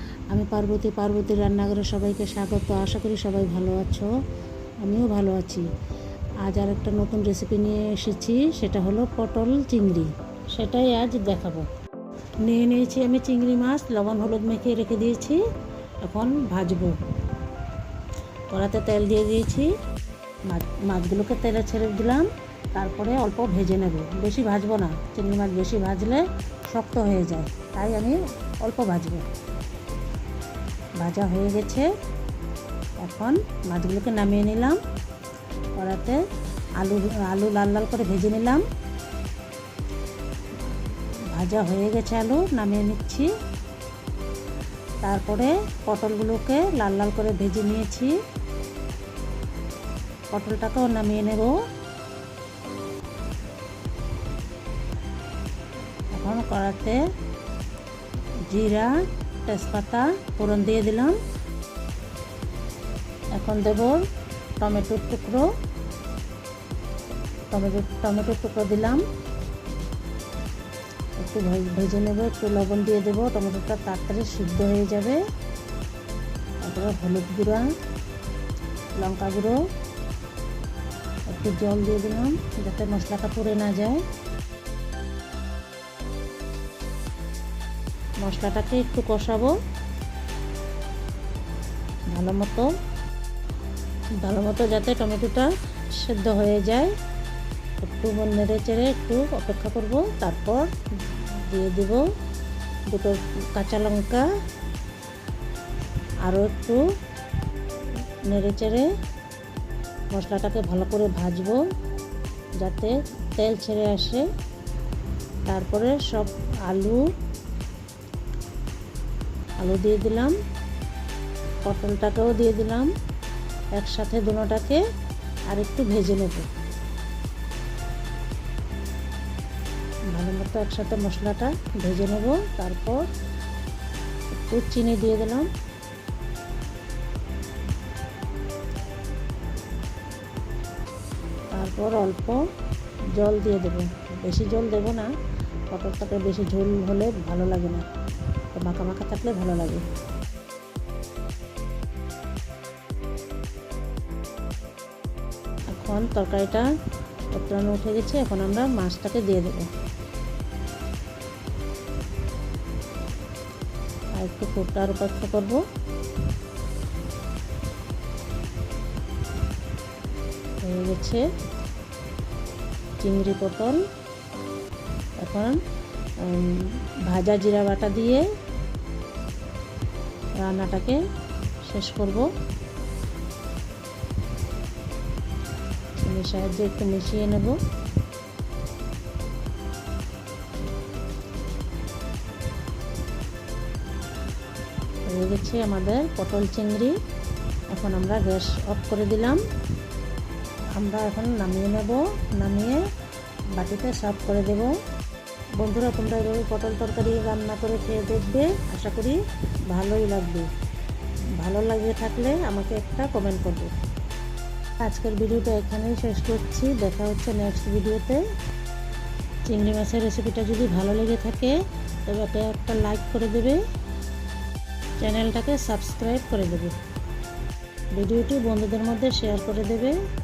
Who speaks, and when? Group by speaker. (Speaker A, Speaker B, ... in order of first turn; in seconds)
Speaker A: 0.3-4.1, 4.8-5.7, 6.4-11.7, 12.4-15.4, 16.0-17.0, 18.5-19.7, 20.5-29.3, 31.0-31.9, 33.0-34.8, 35.8-36.2, 36.8-38.6, 40.9-43.3, 45.0-48.1, 50.3-51.6, 56.1-57.0, 58.5-61.2, 63.3-64.0, 64.6-65.5, 67.5-69.0, 71.2-75.2, 76.6-77.7, 79.0-79.6, 81.3-84.0, 88.2-89.5, 92.1-92.7, 94.2-96.9, 97.8-102.0, 102.9-104.3, 106.2-106.8, 108.3-108.9, 110.1-111.6, 112.6-114.2, 115.5-117.0, 119.6-120.3, 121.6-122.9, 123.7-124.8, 125.5-126.5, 130.1-133.1, 134.3-135.5, 141.5-142.4, 143.1-145.1, 145.7-147.9, 148.5-149.8, 155.7-156.7, 157.3-159.7, 164.2-165.6, 170.6-171.2, 173.0-173.8, 175.2-175.6, 176.2-178.2, 180.4-181.0, 181.6-182.3, 186.0-187.6, 195.0-197.0, 197.7-199.4, 200.7-202.8, 203.6-204.7, 205.6-210.5, 211.4-213.7, 214.8-218.2, 219.5-223.6, 225.0-226.7, 227.9-230.0